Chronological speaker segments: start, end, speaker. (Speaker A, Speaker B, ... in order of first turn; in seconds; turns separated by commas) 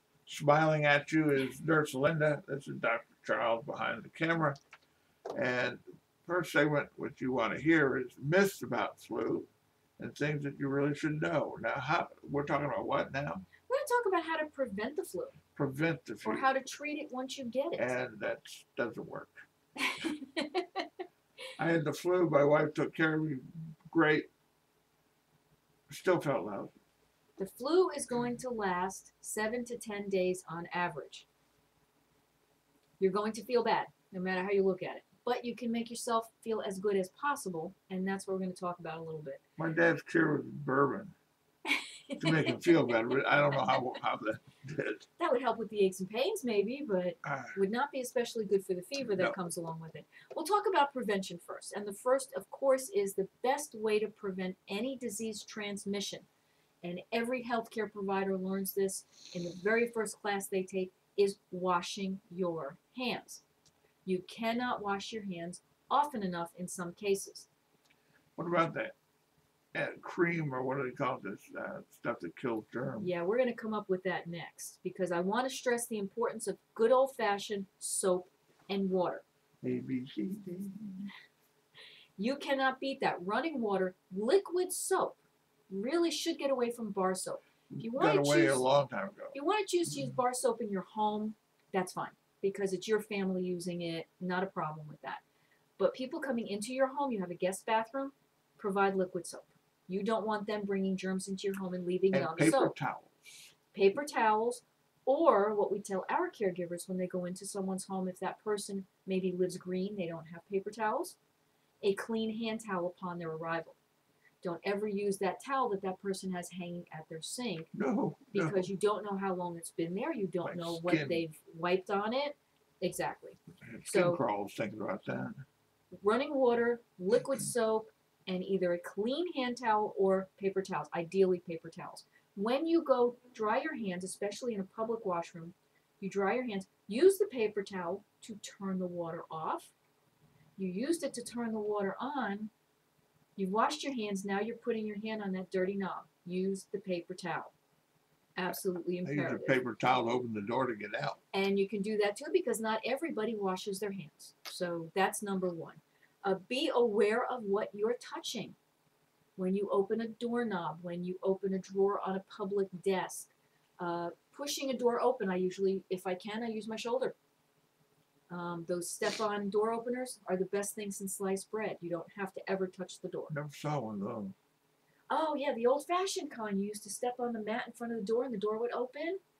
Speaker A: 0.2-4.6, Speaker A: 5.3-13.5, Speaker B: 13.6-15.4, Speaker A: 15.5-16.4, Speaker B: 16.2-18.0, Speaker A: 17.8-19.4, Speaker B: 19.9-20.7, Speaker A: 21.6-24.3, Speaker A: 25.9-26.7, Speaker B: 27.4-31.2, Speaker B: 33.0-39.4, Speaker A: 39.6-41.1, Speaker B: 41.7-43.8, Speaker A: 42.2-45.1, Speaker B: 45.2-56.3, Speaker A: 47.2-47.6, Speaker B: 56.8-63.4, Speaker B: 64.0-67.5, Speaker A: 68.3-69.0, Speaker A: 69.7-73.1, Speaker B: 73.0-79.2, Speaker A: 79.6-81.1, Speaker B: 82.2-85.2, Speaker B: 85.7-88.7, Speaker A: 87.7-89.3, Speaker B: 89.3-95.2, Speaker B: 95.8-102.8, Speaker A: 102.1-103.5, Speaker B: 103.7-111.2, Speaker B: 111.8-113.8, Speaker B: 114.4-117.7, Speaker A: 117.7-118.7, Speaker B: 118.3-124.2, Speaker A: 120.4-121.2, Speaker A: 123.5-125.4, Speaker B: 125.9-139.7, Speaker B: 140.6-142.5, Speaker B: 143.3-147.5, Speaker B: 148.3-149.6, Speaker A: 149.0-151.2, Speaker B: 151.3-158.6, Speaker B: 159.4-167.2, Speaker B: 168.3-173.3, Speaker A: 173.3-174.3, Speaker B: 175.1-179.2